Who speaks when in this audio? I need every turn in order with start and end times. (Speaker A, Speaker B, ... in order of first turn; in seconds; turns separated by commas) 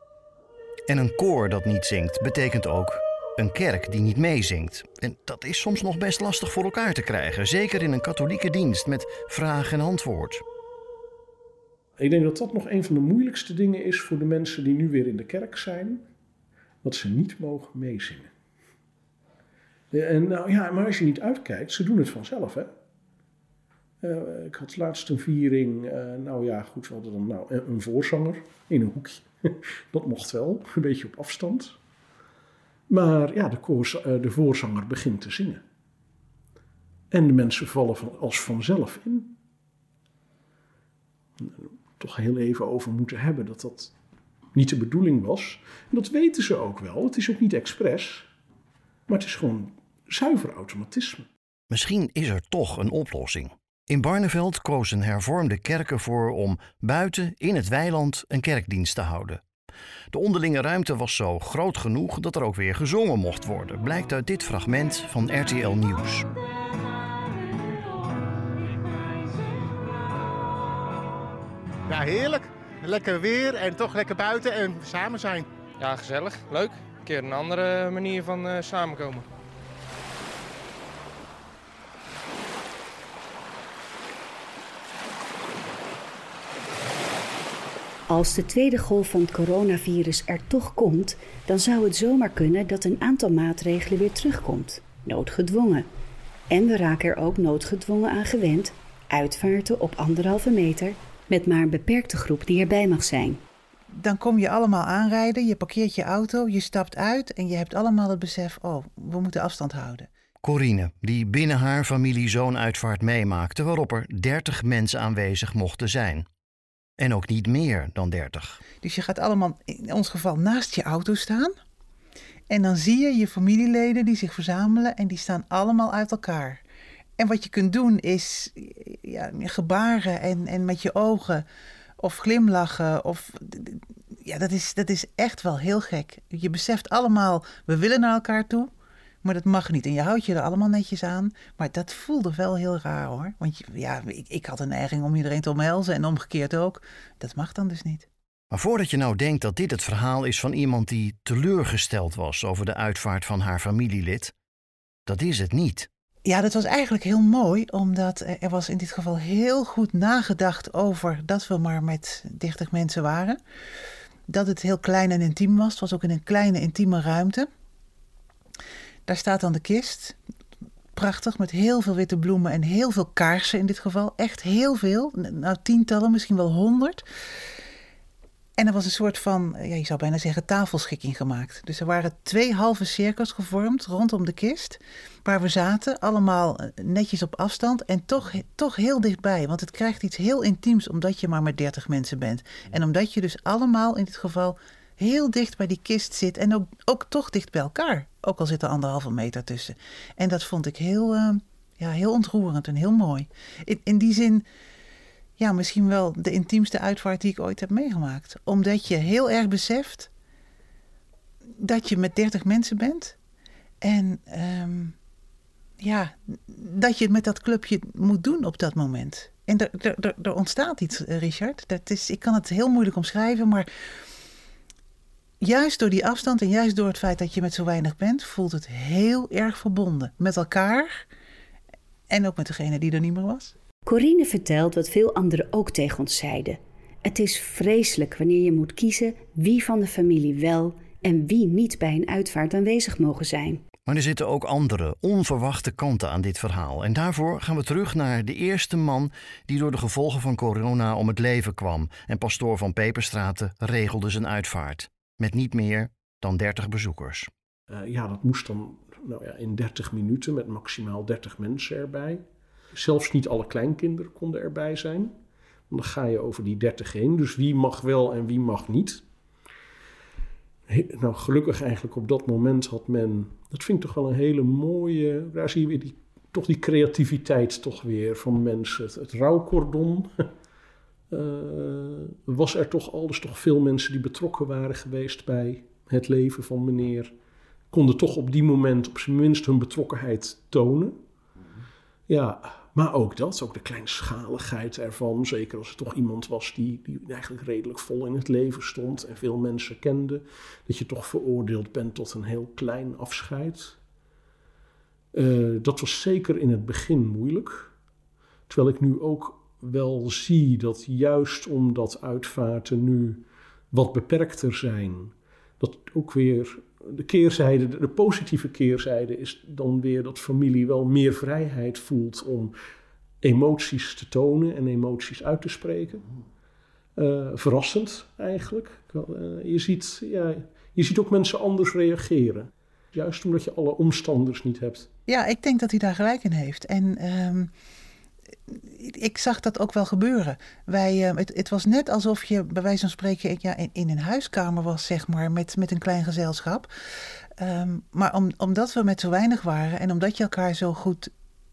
Speaker A: 0.9-10.4, Speaker B: 12.0-16.1, Speaker B: 16.8-18.3, Speaker B: 19.9-22.7, Speaker B: 24.0-31.8, Speaker B: 32.9-35.6, Speaker B: 37.1-39.4, Speaker B: 41.4-43.9, Speaker B: 44.5-48.3, Speaker B: 49.1-51.3, Speaker A: 51.7-59.4, Speaker A: 60.1-66.3, Speaker C: 71.9-75.5, Speaker D: 75.8-79.3, Speaker E: 88.1-95.9, Speaker E: 96.5-103.4, Speaker F: 103.9-110.1, Speaker A: 110.4-116.2, Speaker A: 117.0-118.6, Speaker F: 118.8-121.5, Speaker F: 122.5-126.6, Speaker F: 127.2-131.4, Speaker F: 132.0-138.7, Speaker F: 139.2-148.1, Speaker A: 148.5-154.3, Speaker A: 155.1-155.9, Speaker F: 156.2-163.4, Speaker F: 164.3-167.5, Speaker F: 169.1-170.2, Speaker F: 170.9-177.0, Speaker F: 178.6-204.4, Speaker F: 205.4-210.1, Speaker F: 211.6-213.2, Speaker F: 213.8-215.0, Speaker F: 215.8-223.7, Speaker F: 225.4-231.1, Speaker F: 232.1-233.5, Speaker E: 233.9-243.6, Speaker A: 243.9-257.3, Speaker B: 257.7-265.1, Speaker B: 265.7-269.0, Speaker B: 270.7-280.1, Speaker B: 281.1-287.1, Speaker B: 287.7-291.0, Speaker B: 292.1-303.8, Speaker B: 305.1-307.7, Speaker B: 308.5-322.5, Speaker B: 323.2-326.1, Speaker B: 326.9-334.9, Speaker F: 335.1-337.5, Speaker F: 338.5-346.7, Speaker F: 347.4-351.1